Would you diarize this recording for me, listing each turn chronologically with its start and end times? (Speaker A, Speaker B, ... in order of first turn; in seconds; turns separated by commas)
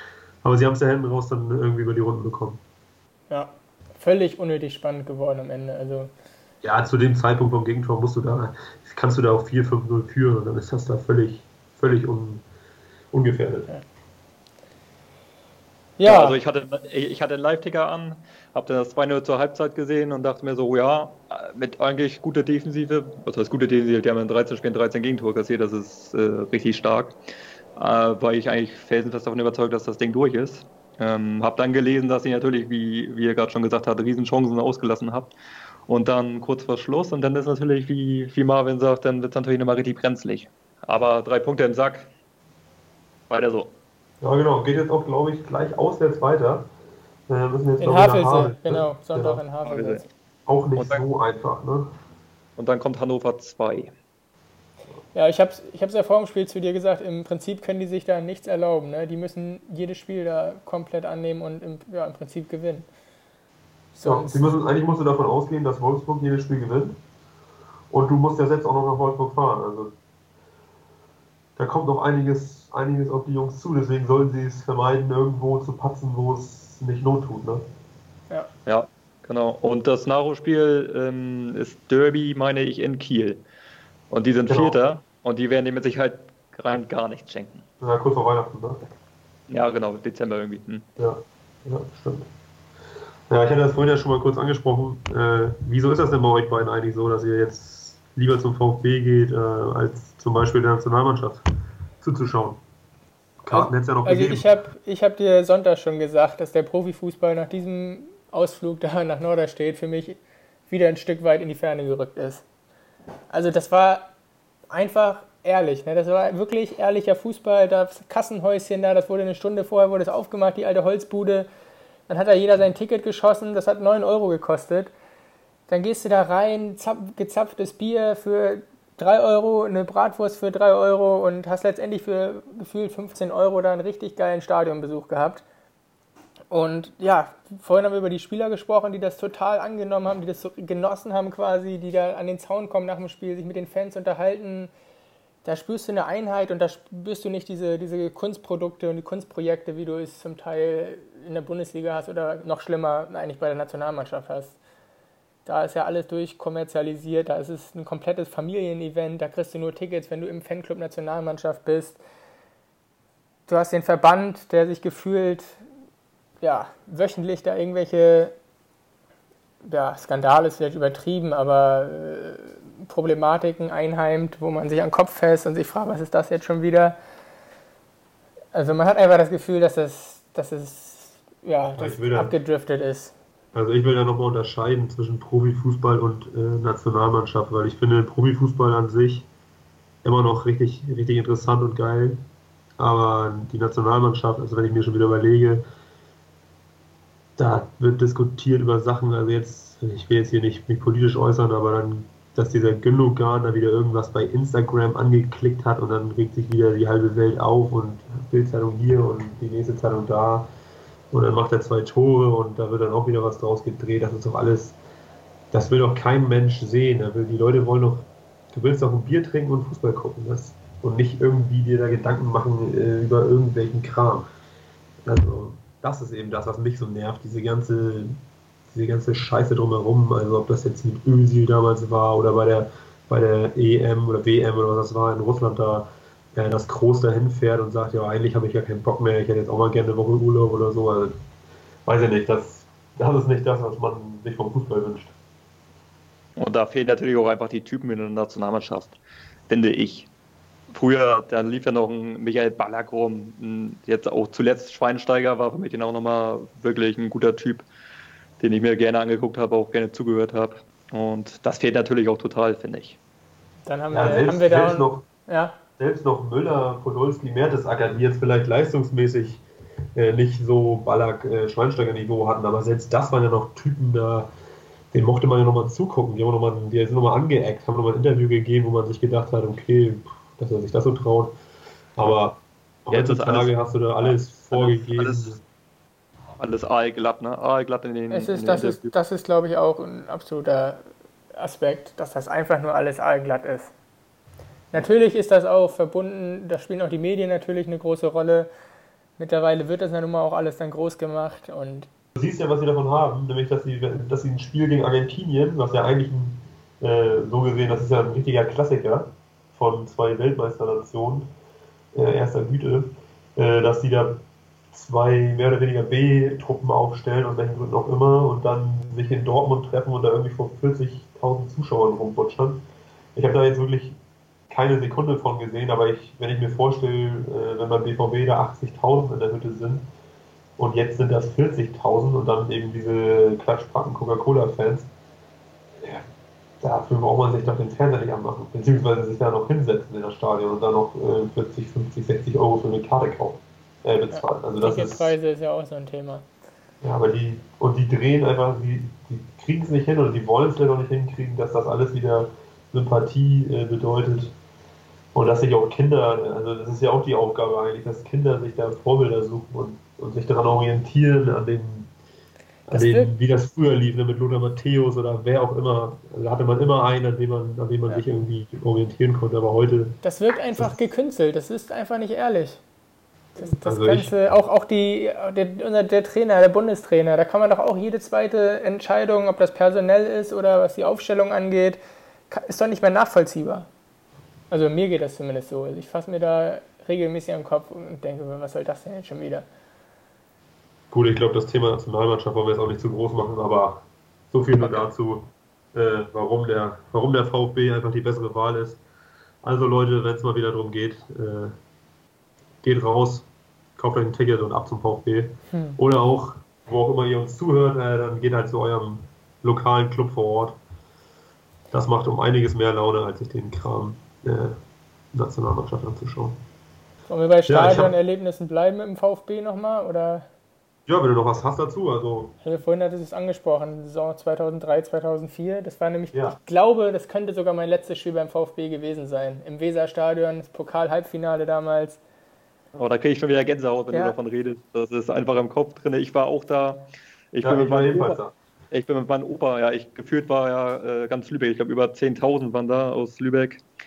Speaker A: 0.4-2.6, Speaker B: 3.3-6.1, Speaker A: 6.6-12.4, Speaker A: 13.1-13.7, Speaker B: 16.0-16.4, Speaker C: 16.0-27.2, Speaker C: 27.8-35.3, Speaker C: 35.9-42.1, Speaker C: 43.3-43.7, Speaker A: 44.2-46.7, Speaker A: 47.3-49.4, Speaker B: 47.8-50.1, Speaker C: 49.6-50.0, Speaker A: 50.5-51.9, Speaker C: 50.8-51.0, Speaker C: 52.6-53.9, Speaker B: 55.1-62.9, Speaker B: 63.9-64.6, Speaker A: 64.0-67.0, Speaker A: 67.9-69.9, Speaker A: 71.6-77.6, Speaker C: 78.7-83.4, Speaker C: 84.1-87.6, Speaker A: 84.5-84.8, Speaker A: 87.8-88.8, Speaker C: 89.5-90.8, Speaker A: 91.0-92.3, Speaker A: 93.3-101.4, Speaker A: 102.0-102.6, Speaker A: 103.4-104.5, Speaker B: 103.5-112.4, Speaker B: 113.3-114.1, Speaker B: 114.7-121.5, Speaker B: 122.1-124.9, Speaker B: 125.7-135.4, Speaker B: 136.5-144.7, Speaker B: 145.4-154.6, Speaker B: 155.4-162.0, Speaker B: 163.5-165.6, Speaker B: 166.4-168.3, Speaker B: 169.6-176.9, Speaker B: 178.5-183.1, Speaker A: 181.8-182.3, Speaker A: 183.5-189.3, Speaker A: 190.0-192.2, Speaker A: 192.8-195.6, Speaker A: 197.4-210.5, Speaker A: 211.1-214.8, Speaker A: 215.5-224.2, Speaker A: 225.0-228.2, Speaker A: 228.7-241.1, Speaker A: 241.8-245.1, Speaker C: 246.4-249.0, Speaker C: 249.5-250.1, Speaker C: 250.7-257.6, Speaker C: 258.4-263.0, Speaker B: 263.6-265.6, Speaker A: 263.9-265.1, Speaker A: 265.8-269.4, Speaker A: 269.9-274.3, Speaker A: 274.9-281.3, Speaker A: 282.0-285.4, Speaker C: 282.9-285.4, Speaker C: 286.4-288.9, Speaker B: 288.1-290.8, Speaker B: 291.3-293.7, Speaker B: 294.7-298.5, Speaker B: 299.2-301.9, Speaker A: 302.1-311.3, Speaker A: 311.9-314.2, Speaker A: 314.7-322.6, Speaker A: 323.1-324.0, Speaker A: 324.5-329.9, Speaker A: 330.6-334.9, Speaker A: 335.8-336.0, Speaker A: 336.6-345.1, Speaker B: 344.1-346.2, Speaker A: 346.8-354.4, Speaker A: 355.1-361.9, Speaker A: 362.7-370.0, Speaker B: 362.7-363.1, Speaker B: 370.0-372.6, Speaker A: 370.5-370.8, Speaker B: 373.4-381.8, Speaker A: 373.6-374.1, Speaker B: 382.3-383.7, Speaker B: 384.5-389.4, Speaker A: 390.9-398.8, Speaker A: 399.4-401.5, Speaker A: 402.6-410.6, Speaker B: 405.5-405.8, Speaker A: 411.7-414.6, Speaker A: 415.1-416.4, Speaker B: 417.1-420.3, Speaker A: 417.5-417.9, Speaker A: 420.9-422.3, Speaker B: 422.4-432.0, Speaker C: 432.7-438.2, Speaker B: 433.9-434.1, Speaker A: 437.4-438.3, Speaker C: 438.7-443.6